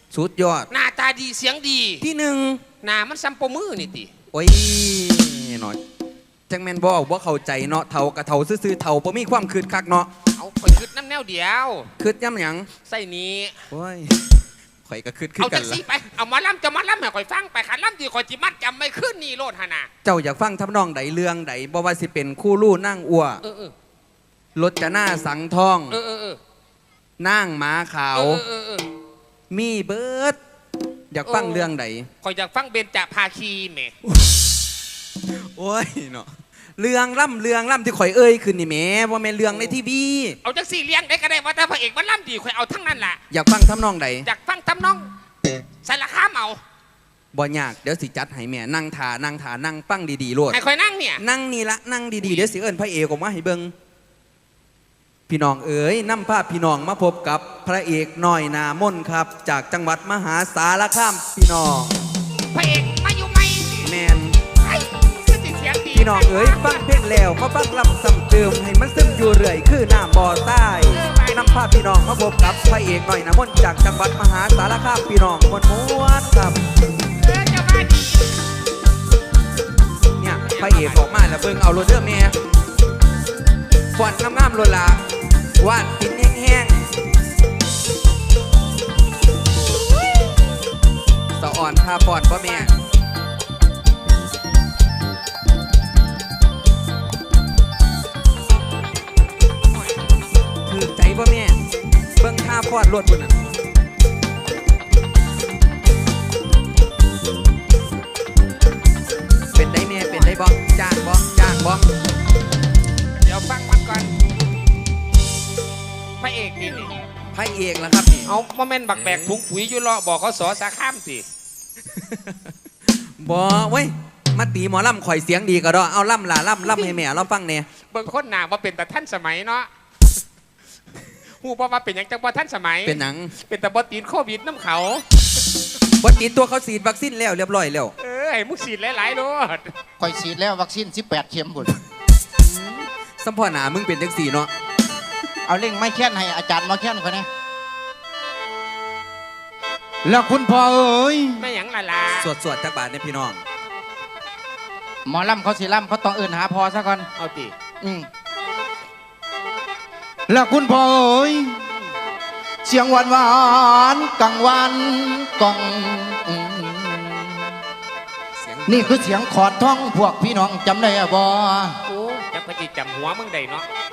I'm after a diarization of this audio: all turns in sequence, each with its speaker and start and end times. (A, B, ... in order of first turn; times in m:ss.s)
0:00.1-0:00.7 A
0:00.7-0:02.0 B
0:02.0-0:02.6 A
0:02.8-0:04.1 B
0:04.3-0:05.8 A
0:06.5-0:10.1 A
0:10.4-0:11.9 B
0:12.0-0:12.7 A
0:12.9-0:13.6 B
0:13.7-0:14.1 A
0:14.9-0:15.8 A
0:15.4-0:19.9 B
0:20.0-0:23.4 A
0:23.4-0:23.7 B
0:24.6-0:26.0 A
0:25.9-0:26.4 B
0:27.2-0:28.4 A
0:28.1-0:28.9 B
0:29.5-0:30.4 A
0:31.1-0:32.1 A
0:31.2-0:31.7 B
0:32.2-0:34.0 B
0:35.3-0:40.4 A
0:39.5-0:39.8 B
0:40.4-0:43.2 B
0:43.3-0:44.3 A
0:44.2-0:45.1 B
0:45.8-0:46.6 B
0:47.3-0:50.6 A
0:50.5-0:51.2 B
0:51.2-0:53.7 A
0:55.3-1:02.0 A
1:02.5-1:03.9 B
1:03.8-1:04.4 A
1:04.6-1:07.0 B
1:05.9-1:16.6 A
1:10.9-1:11.6 B
1:17.2-1:18.4 B
1:20.2-1:22.4 A
1:20.4-1:21.1 B
1:24.0-1:25.0 A
1:25.6-1:26.9 A
1:31.4-1:32.7 A
1:40.6-1:41.6 A
1:42.2-1:43.4 A
1:49.5-1:51.9 A
1:53.2-1:54.1 B
1:56.2-1:56.9 B
1:57.3-1:58.3 A
1:58.3-2:01.2 B
1:59.0-1:59.3 A
2:02.0-2:02.5 A
2:03.2-2:07.7 A
2:07.9-2:09.7 B
2:11.4-2:15.0 B
2:12.8-2:13.3 A
2:16.0-2:17.9 A
2:18.0-2:19.7 B
2:20.0-2:21.8 C
2:23.2-2:24.5 A
2:25.5-2:27.3 C
2:30.0-2:31.5 C
2:31.4-2:32.3 B
2:32.2-2:33.4 A
2:35.1-2:37.1 C
2:37.2-2:37.5 B
2:37.8-2:38.1 C
2:40.3-2:41.5 C
2:42.6-2:47.5 C
2:48.4-2:49.1 A
2:48.7-2:51.8 C
2:51.9-2:53.7 B